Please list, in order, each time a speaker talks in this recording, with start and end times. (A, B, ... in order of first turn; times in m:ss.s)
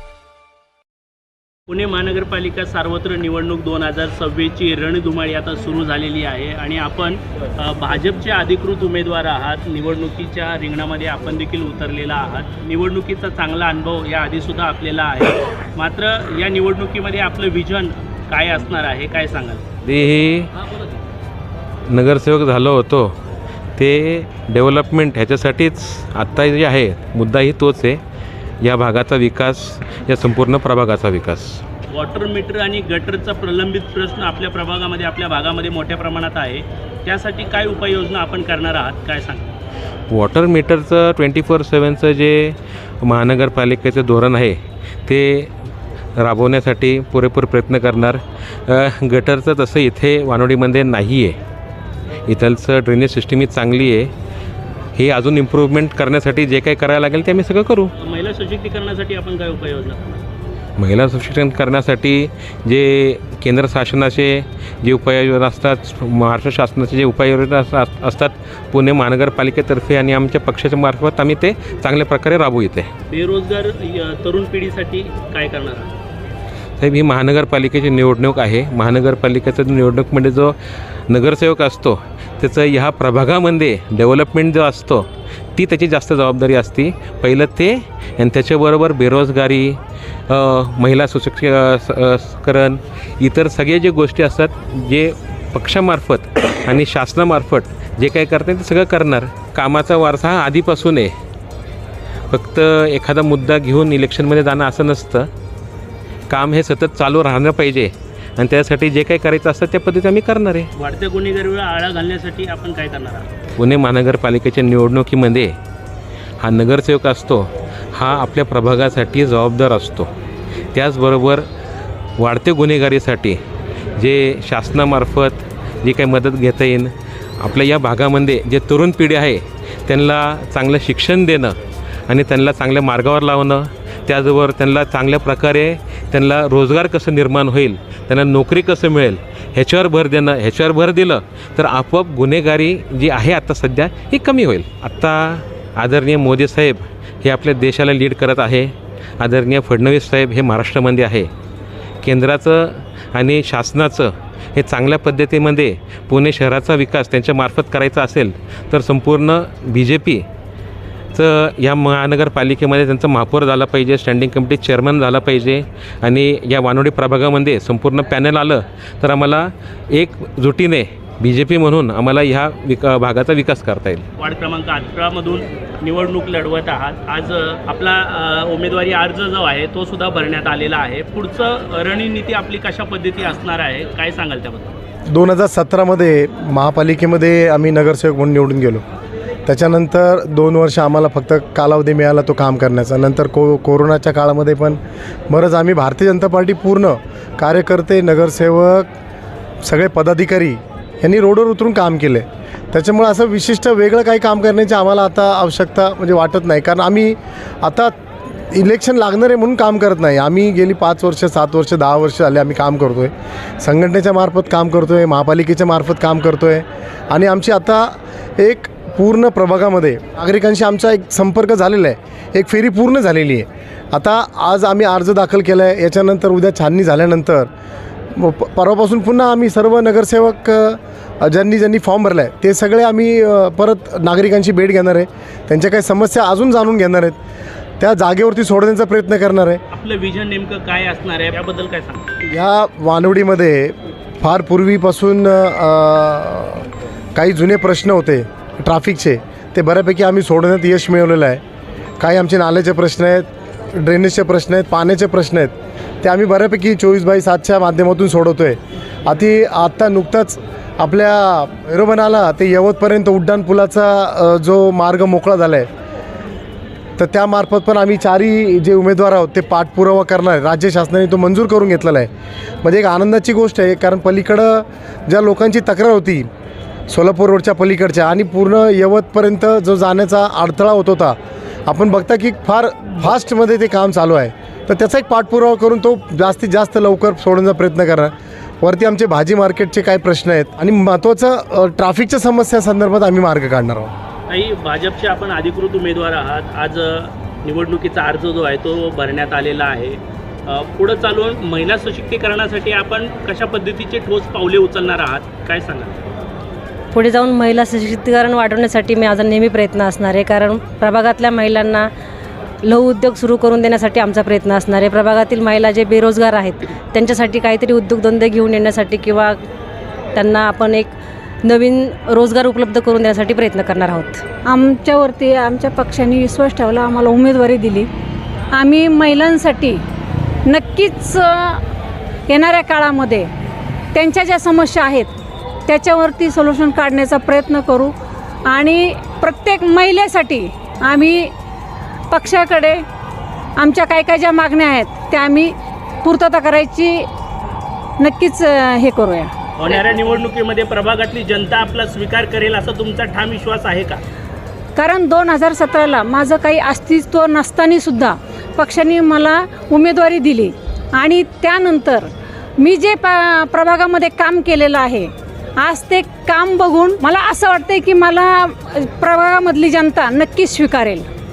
0:01.7-0:19.6 A
0:19.8-0:20.5 B
0:20.6-0:21.0 A
0:21.9-0:23.2 B
0:23.8-0:28.0 B
0:28.6-0:31.6 B
0:31.9-0:39.6 A
0:40.1-0:45.5 B
0:46.2-0:51.4 B
0:52.3-0:54.1 B
0:55.0-0:57.9 B
0:58.0-1:00.2 A
1:00.8-1:12.9 B
1:13.1-1:15.9 A
1:16.8-1:20.6 B
1:21.1-1:41.1 B
1:42.3-1:45.3 B
1:46.3-1:50.7 B
1:50.8-1:53.3 A
1:53.6-1:55.6 B
1:56.4-2:00.1 B
2:00.7-2:01.5 B
2:02.2-2:03.4 B
2:04.0-2:11.6 B
2:12.1-2:31.3 B
2:32.0-2:40.3 B
2:41.1-2:54.1 B
2:54.2-3:04.8 A
3:05.1-3:08.8 C
3:09.5-3:18.9 C
3:19.6-3:27.9 C
3:28.5-3:47.5 C
3:48.2-3:57.2 C
3:57.8-3:59.6 C
3:59.7-4:02.1 A
4:02.3-4:11.4 C
4:12.0-4:25.7 C
4:27.0-4:32.1 C
4:32.6-4:36.3 C
4:36.9-4:53.9 C
4:54.3-5:06.0 A
5:06.9-5:11.9 D
5:12.6-5:19.4 D
5:20.2-5:20.9 D
5:21.4-5:24.2 D
5:24.4-5:27.9 E
5:28.5-5:29.8 E
5:30.4-5:31.6 E
5:32.3-5:33.3 E
5:33.9-5:35.1 E
5:35.7-5:37.9 E
5:38.5-5:41.3 E
5:42.1-5:42.8 E
5:43.6-5:45.5 E
5:46.0-5:47.1 E
5:48.0-5:49.8 E
5:49.6-5:54.0 A
5:54.8-6:11.1 E